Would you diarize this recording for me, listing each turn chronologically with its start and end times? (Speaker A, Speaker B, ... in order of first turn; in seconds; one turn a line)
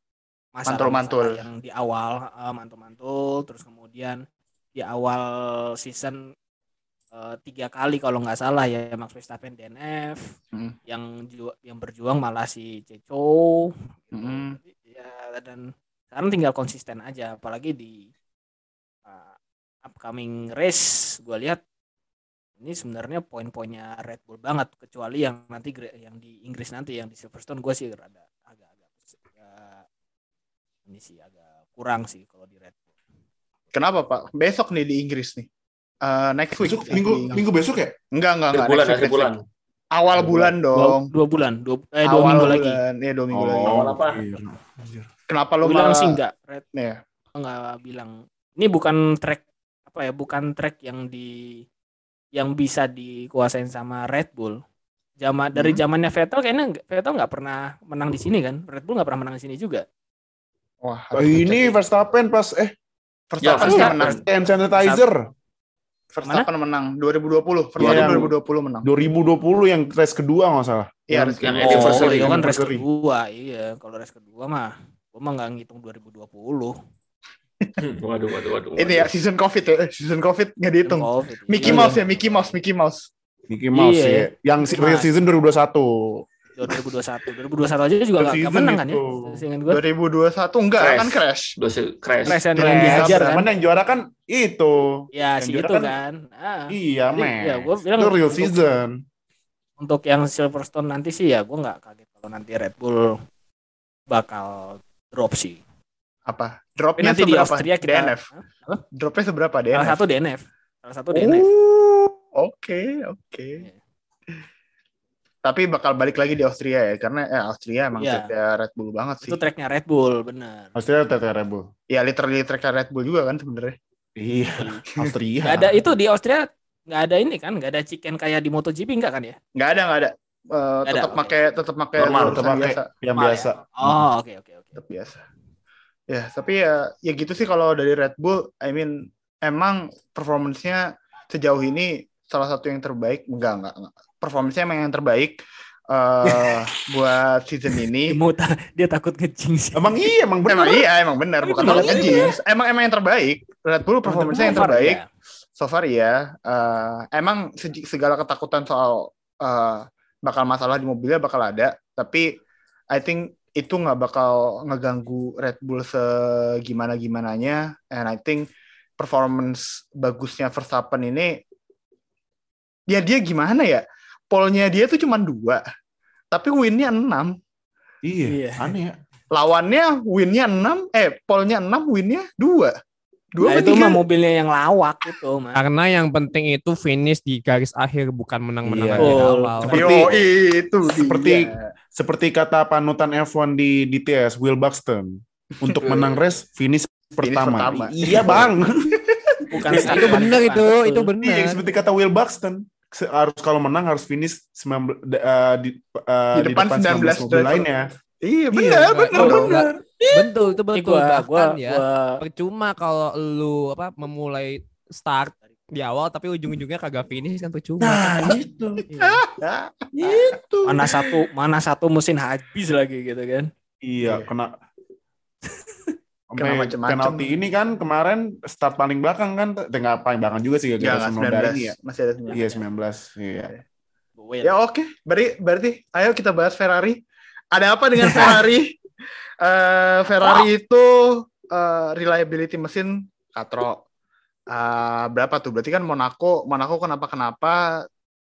Speaker A: 0.6-4.2
Speaker B: 0.7-1.5
Speaker A: 4.8-6.2
Speaker A: 7.1-10.3
Speaker A: 10.9-18.1
Speaker B: 14.1-14.6
Speaker A: 19.1-19.3
Speaker A: 19.9-21.6
Speaker A: 22.6-29.9
Speaker A: 30.9-32.9
Speaker B: 33.7-35.5
Speaker B: 36.0-37.4
Speaker C: 36.6-38.0
Speaker B: 38.1-41.1
Speaker D: 38.5-39.4
Speaker A: 40.2-42.8
Speaker B: 42.0-43.8
Speaker C: 43.3-45.1
Speaker D: 43.7-44.2
Speaker B: 45.3-46.2
Speaker A: 45.6-46.7
Speaker B: 46.8-47.0
Speaker A: 47.3-51.7
Speaker A: 52.3-54.6
Speaker A: 55.2-59.9
Speaker B: 55.5-55.8
Speaker B: 60.8-61.8
Speaker C: 61.1-62.7
Speaker B: 63.3-64.2
Speaker D: 63.4-64.2
Speaker C: 63.6-65.2
Speaker A: 64.7-65.0
Speaker B: 66.1-68.9
Speaker D: 67.8-68.3
Speaker C: 67.8-68.3
Speaker C: 68.8-71.1
Speaker B: 71.1-72.8
Speaker D: 71.4-72.4
Speaker C: 71.6-72.6
Speaker A: 71.6-76.8
Speaker D: 77.8-79.1
Speaker B: 78.8-83.1
Speaker A: 80.8-82.0
Speaker C: 81.6-81.9
Speaker C: 83.5-86.2
Speaker A: 83.7-85.1
Speaker A: 86.6-89.8
Speaker C: 88.2-89.4
Speaker B: 89.7-91.5
Speaker D: 90.8-92.5
Speaker A: 92.3-93.5
Speaker C: 92.5-95.0
Speaker B: 92.6-93.4
Speaker A: 95.1-98.6
Speaker B: 95.4-96.0
Speaker C: 96.7-99.0
Speaker A: 99.8-103.2
Speaker A: 104.1-105.6
Speaker B: 106.3-108.3
Speaker A: 107.0-108.8
Speaker B: 108.9-110.0
Speaker A: 109.7-111.5
Speaker B: 111.1-113.7
Speaker B: 115.4-119.4
Speaker A: 118.0-118.3
Speaker A: 119.2-120.7
Speaker C: 120.8-121.7
Speaker B: 121.9-123.8
Speaker C: 124.2-125.8
Speaker A: 124.6-124.8
Speaker A: 125.4-129.4
Speaker B: 129.6-132.9
Speaker A: 130.8-131.4
Speaker D: 132.0-132.5
Speaker C: 132.0-134.0
Speaker A: 133.1-134.8
Speaker B: 134.8-135.2
Speaker B: 136.1-145.4
Speaker B: 145.9-148.2
Speaker A: 146.3-146.6
Speaker A: 148.1-150.1
Speaker C: 149.8-150.9
Speaker B: 150.5-155.0
Speaker A: 151.4-152.4
Speaker C: 151.6-152.3
Speaker C: 154.1-154.8
Speaker A: 154.1-155.1
Speaker B: 155.6-162.4
Speaker B: 162.9-168.5
Speaker B: 169.0-171.4
Speaker B: 172.9-175.6
Speaker B: 176.3-177.4
Speaker C: 178.0-179.0
Speaker A: 178.3-178.7
Speaker B: 179.3-182.8
Speaker B: 183.3-184.0
Speaker A: 183.4-185.6
Speaker E: 185.6-189.9
Speaker C: 188.6-190.3
Speaker A: 189.0-189.7
Speaker B: 189.7-191.7
Speaker C: 190.9-199.0
Speaker B: 197.2-198.5
Speaker B: 199.1-199.3
Speaker A: 199.5-201.1
Speaker D: 199.7-200.1
Speaker E: 199.8-201.6
Speaker C: 201.2-207.9
Speaker B: 206.3-207.7
Speaker B: 208.2-209.7
Speaker C: 208.5-210.3
Speaker A: 209.1-209.5
Speaker E: 210.1-218.4
Speaker A: 210.7-212.2
Speaker C: 217.8-218.8
Speaker A: 218.9-219.2
Speaker B: 219.0-220.3
Speaker C: 219.9-220.9
Speaker A: 220.7-223.5
Speaker C: 223.8-224.5
Speaker B: 224.0-224.3
Speaker C: 226.3-231.8
Speaker B: 226.4-227.3
Speaker B: 230.8-232.6
Speaker C: 232.3-233.5
Speaker A: 234.2-234.5
Speaker B: 234.4-237.0
Speaker B: 237.5-238.8
Speaker A: 238.0-238.4
Speaker B: 239.4-243.8
Speaker B: 244.5-247.9